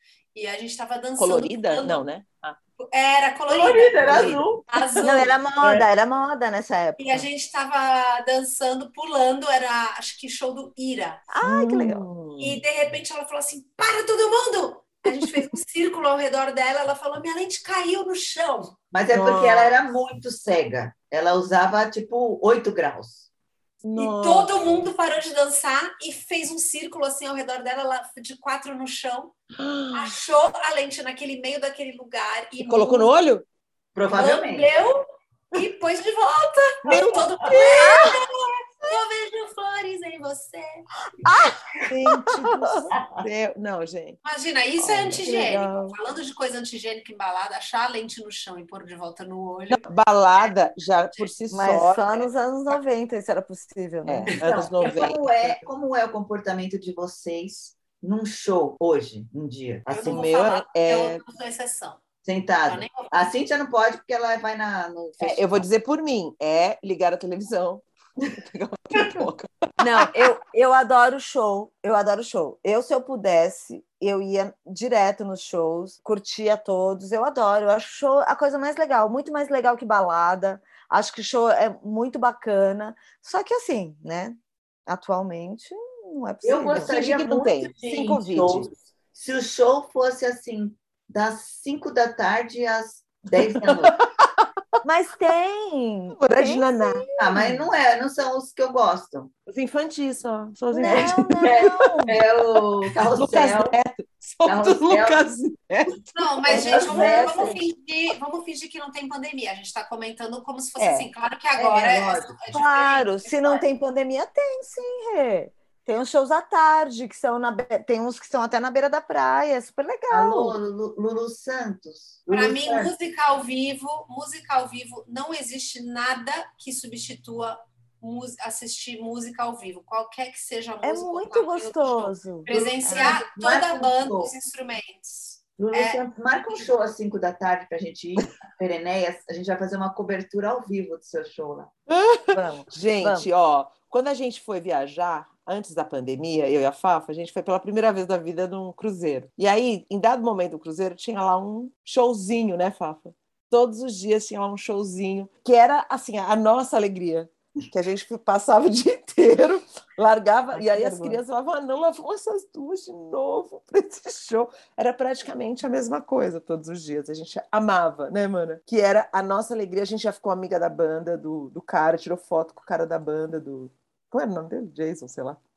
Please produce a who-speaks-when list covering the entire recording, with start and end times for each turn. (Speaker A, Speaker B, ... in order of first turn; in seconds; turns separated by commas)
Speaker A: 0.3-2.1, Speaker B: 1.2-2.6, Speaker A: 2.8-5.4, Speaker C: 3.5-4.6, Speaker B: 4.0-5.8, Speaker D: 5.0-7.3, Speaker A: 7.0-11.2, Speaker D: 11.3-12.1, Speaker B: 11.4-12.6, Speaker A: 12.4-18.7, Speaker C: 18.9-23.3, Speaker B: 19.1-19.8, Speaker B: 23.8-24.9, Speaker A: 24.0-29.3, Speaker B: 29.6-30.2, Speaker A: 29.9-33.1, Speaker B: 32.6-33.5, Speaker C: 34.0-34.7, Speaker A: 34.1-40.8, Speaker B: 36.9-38.2, Speaker D: 37.8-38.2, Speaker D: 41.2-42.9, Speaker B: 41.8-44.2, Speaker A: 44.2-49.9, Speaker B: 44.8-45.3, Speaker D: 45.2-46.0, Speaker B: 49.7-52.2, Speaker D: 51.5-54.4, Speaker B: 54.1-55.6, Speaker C: 54.5-60.3, Speaker A: 59.9-62.0, Speaker B: 60.0-61.2, Speaker C: 62.2-65.6, Speaker A: 62.7-63.1, Speaker B: 65.2-70.2, Speaker D: 69.8-86.9, Speaker C: 86.4-94.0, Speaker B: 86.8-88.7, Speaker B: 93.6-94.3, Speaker D: 94.8-97.0, Speaker B: 96.1-97.6, Speaker C: 97.2-99.3, Speaker B: 99.5-102.0, Speaker D: 100.7-102.2, Speaker C: 100.8-103.8, Speaker B: 103.0-106.1, Speaker C: 104.5-105.3, Speaker A: 106.1-113.6, Speaker C: 106.5-107.6, Speaker D: 106.5-107.7, Speaker B: 110.8-111.1, Speaker C: 111.6-112.4, Speaker D: 112.5-120.6, Speaker C: 120.1-122.9, Speaker A: 122.3-136.7, Speaker D: 130.8-133.2, Speaker C: 132.5-134.3, Speaker C: 135.6-141.7, Speaker B: 141.9-175.4, Speaker D: 142.3-143.3, Speaker D: 160.5-161.2